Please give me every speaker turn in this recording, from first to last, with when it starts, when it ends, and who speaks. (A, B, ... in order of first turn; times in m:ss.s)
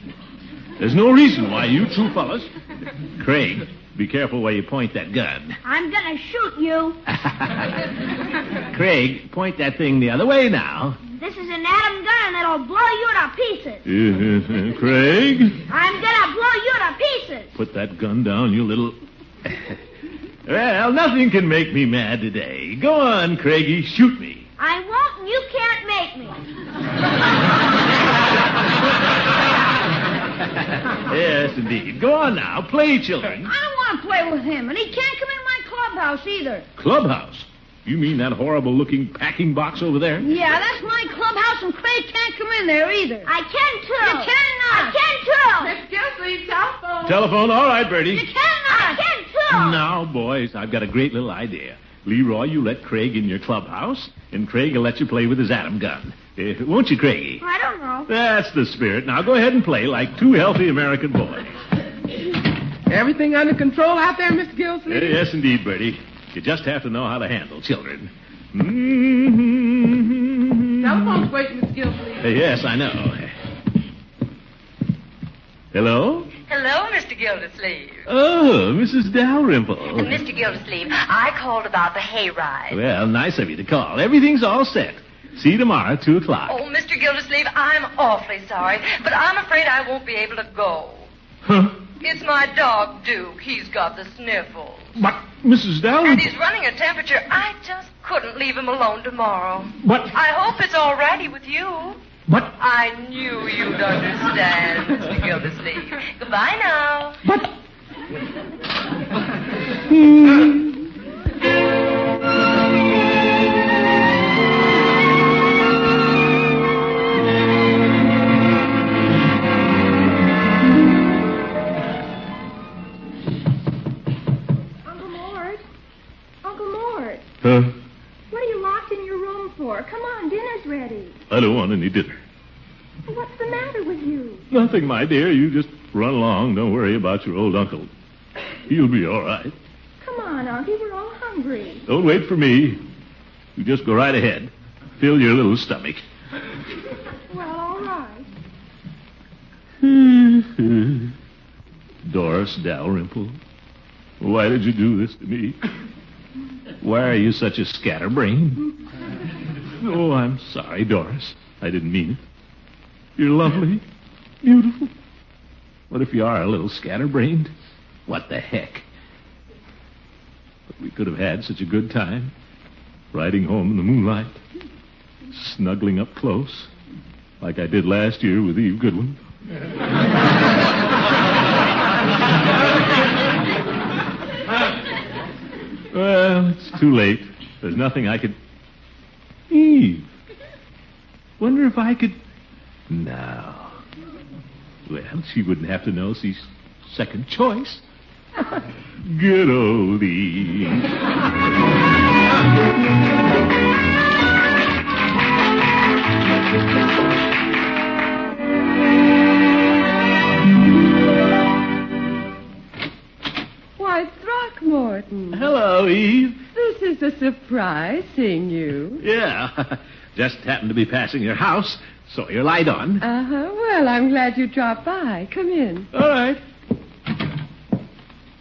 0:00.8-0:02.5 A
0:03.2-0:05.6 A
0:05.6-0:07.0 B
0:07.1-0:07.7 A
0:08.7-0:11.0 A
0:11.2-0:13.8 B
0:13.8-0:15.6 A
0:15.7-0:17.5 B
0:17.5-0:19.8 A
0:20.4-0:24.5 A
0:24.6-0:26.4 B
0:31.0-0:33.5 A
0:33.4-0:36.6 B
0:36.8-0:40.3 A
0:40.2-0:45.7 B
0:45.6-0:47.2 C
0:47.0-0:48.3 A
0:48.1-0:49.8 B
0:49.5-0:57.4 A
0:57.4-0:58.1 B
0:58.1-1:01.5 A
1:02.9-1:05.2 C
1:04.9-1:11.2 A
1:10.8-1:12.3 C
1:12.2-1:13.3 A
1:15.7-1:16.3 A
1:16.4-1:18.0 D
1:18.1-1:20.2 A
1:19.9-1:22.8 D
1:22.7-1:26.5 A
1:26.4-1:31.1 D
1:31.4-1:31.7 A
1:32.0-1:35.0 D
1:35.0-1:36.3 A
1:36.0-1:42.0 D
1:39.8-1:40.1 A
1:42.6-1:47.2 D
1:49.9-1:50.5 A
2:04.8-2:05.6 E
2:06.4-2:07.2 E
2:07.4-2:07.7 A
2:08.3-2:11.2 E
2:11.3-2:12.2 A
2:13.0-2:14.4 E
2:14.5-2:17.9 A
2:18.7-2:19.5 A
2:20.0-2:21.8 E
2:21.9-2:22.8 A
2:23.6-2:26.0 A
2:27.3-2:28.2 E
2:29.8-2:31.1 A
2:32.0-2:33.4 A
2:34.2-2:35.6 A
2:36.8-2:38.7 A
2:39.8-2:42.2 A
2:43.2-2:43.8 A
2:44.4-2:44.9 A
2:45.9-2:47.5 A
2:48.1-2:48.8 A
2:50.7-2:52.3 A
2:53.1-2:54.4 A
2:55.3-2:56.7 A
2:57.4-2:59.2 A
3:05.9-3:08.4 A
3:09.5-3:10.1 A
3:11.4-3:12.2 A
3:12.9-3:13.8 A
3:14.9-3:17.8 A
3:19.0-3:20.9 A
3:33.8-3:35.5 F
3:35.3-3:36.4 A
3:36.5-3:39.0 F
3:39.0-3:43.0 A
3:43.0-3:45.9 F
3:45.9-3:46.4 A